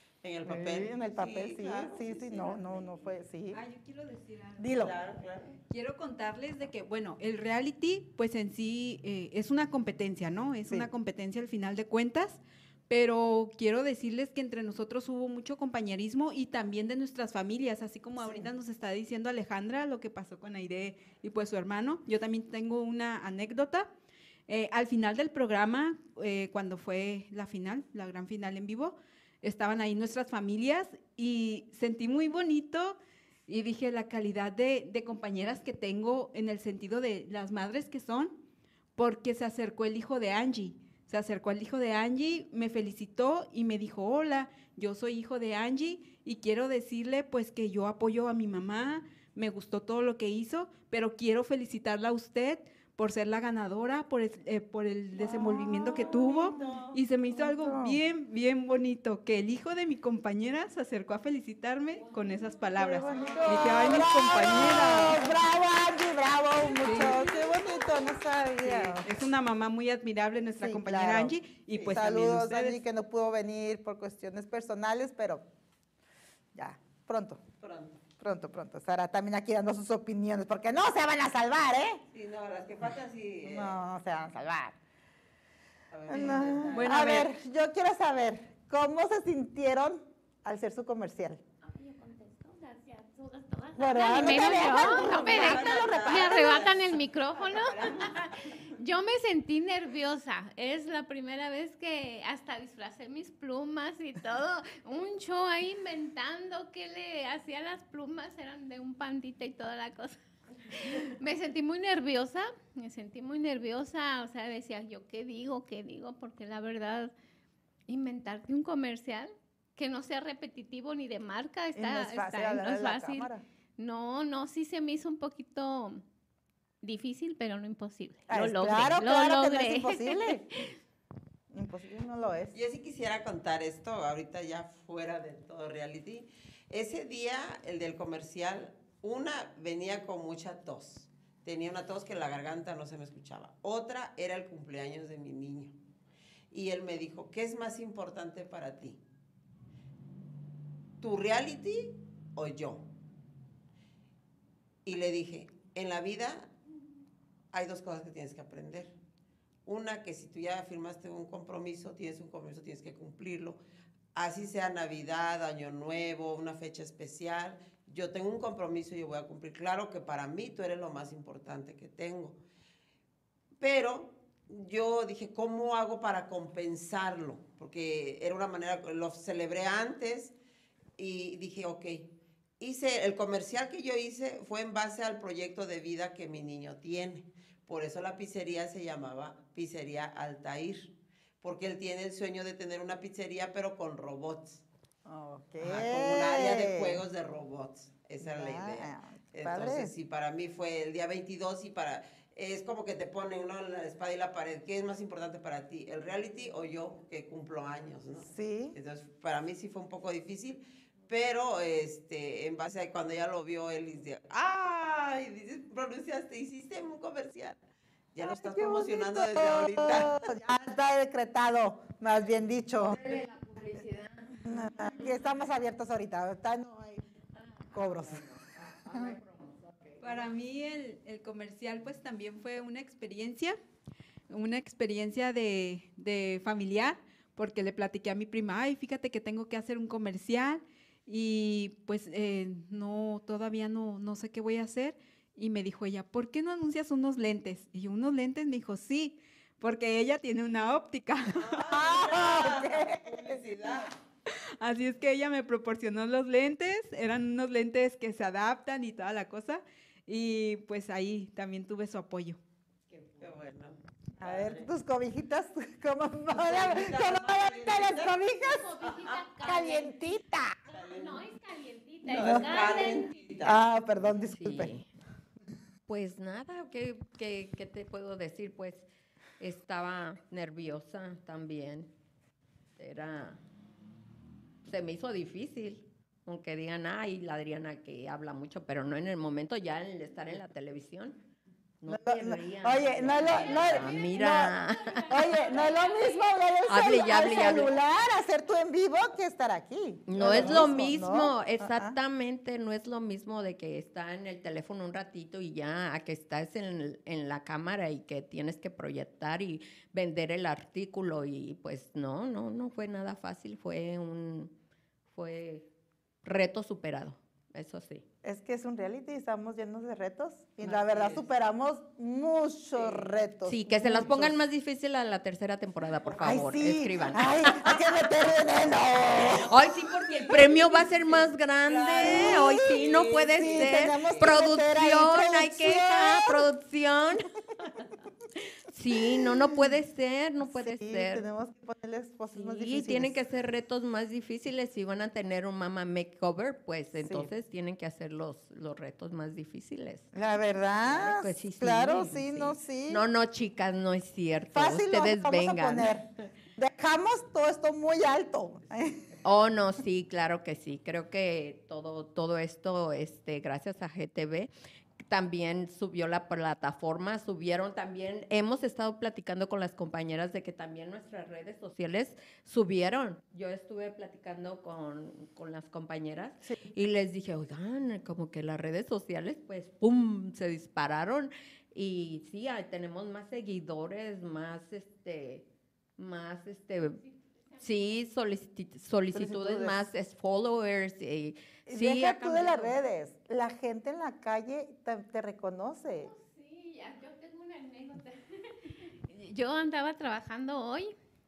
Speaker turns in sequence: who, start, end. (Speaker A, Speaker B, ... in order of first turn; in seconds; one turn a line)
Speaker A: 0.2-3.1
Speaker B: 0.4-3.6
Speaker C: 3.5-4.7
Speaker B: 4.6-5.0
Speaker A: 4.8-5.6
Speaker C: 5.7-23.9
Speaker B: 18.2-18.5
Speaker C: 24.5-33.0
Speaker C: 33.5-38.4
Speaker C: 39.0-65.2
Speaker A: 55.2-57.0
Speaker B: 57.3-58.0
Speaker B: 62.8-69.1
Speaker A: 62.8-65.4
Speaker C: 66.8-67.2
Speaker C: 68.6-72.8
Speaker B: 70.6-71.3
Speaker B: 71.8-75.4
Speaker B: 76.5-77.4
Speaker A: 77.6-78.0
Speaker B: 78.2-82.0
Speaker A: 82.1-83.8
Speaker B: 83.4-84.8
Speaker A: 85.9-87.3
Speaker B: 86.1-91.4
Speaker C: 86.1-87.3
Speaker D: 91.6-117.1
Speaker B: 93.8-96.7
Speaker A: 94.0-98.7
Speaker D: 117.9-126.0
Speaker B: 121.7-123.4
Speaker D: 126.8-130.7
Speaker B: 128.3-130.4
Speaker B: 131.5-132.5
Speaker A: 132.5-145.8
Speaker A: 146.5-149.0
Speaker A: 151.0-152.9
Speaker A: 154.8-156.5
Speaker A: 157.5-158.9
Speaker A: 159.7-163.6
Speaker A: 164.1-172.4
Speaker A: 173.6-180.3
Speaker A: 181.0-194.6
Speaker B: 195.1-197.0
Speaker A: 195.6-217.6
Speaker B: 198.2-199.9
Speaker B: 208.2-208.8
Speaker A: 218.1-220.1
Speaker B: 218.2-223.2
Speaker E: 222.8-224.9
Speaker B: 224.4-227.0
Speaker E: 227.4-230.3
Speaker B: 227.7-228.2
Speaker C: 230.0-233.6
Speaker C: 234.3-251.6
Speaker A: 251.3-253.9
Speaker B: 251.7-253.8
Speaker C: 254.3-262.4
Speaker A: 263.2-264.7
Speaker B: 264.2-268.7
Speaker A: 266.3-268.1
Speaker D: 268.4-270.1
Speaker A: 268.8-269.2
Speaker B: 269.4-270.6
Speaker D: 270.7-273.2
Speaker A: 270.7-271.3
Speaker A: 272.0-273.6
Speaker B: 272.2-272.4
Speaker B: 273.4-274.7
Speaker E: 274.3-274.9
Speaker E: 275.9-278.9
Speaker E: 279.4-281.9
Speaker E: 282.8-283.4
Speaker E: 284.6-291.2
Speaker E: 291.8-295.4
Speaker B: 291.9-294.5
Speaker D: 293.3-296.4
Speaker B: 295.1-302.0
Speaker E: 296.7-297.7
Speaker E: 300.1-314.5
Speaker A: 300.2-300.7
Speaker E: 315.1-315.7
Speaker E: 316.2-318.0
Speaker B: 318.2-324.4
Speaker A: 320.6-321.2
Speaker A: 322.8-323.1
Speaker E: 323.4-327.7
Speaker A: 325.9-326.4
Speaker B: 326.2-329.5
Speaker E: 329.5-337.3
Speaker A: 331.6-334.3
Speaker B: 332.0-336.4
Speaker E: 338.7-341.2
Speaker B: 339.2-339.7
Speaker B: 340.4-343.2
Speaker E: 342.3-350.1
Speaker B: 347.0-347.3
Speaker B: 350.1-353.0
Speaker E: 350.9-355.9
Speaker B: 354.5-359.1
Speaker E: 359.2-364.5
Speaker E: 365.1-387.0
Speaker D: 387.0-387.9
Speaker E: 387.6-392.8
Speaker B: 389.1-389.8
Speaker B: 391.7-396.1
Speaker D: 396.0-400.9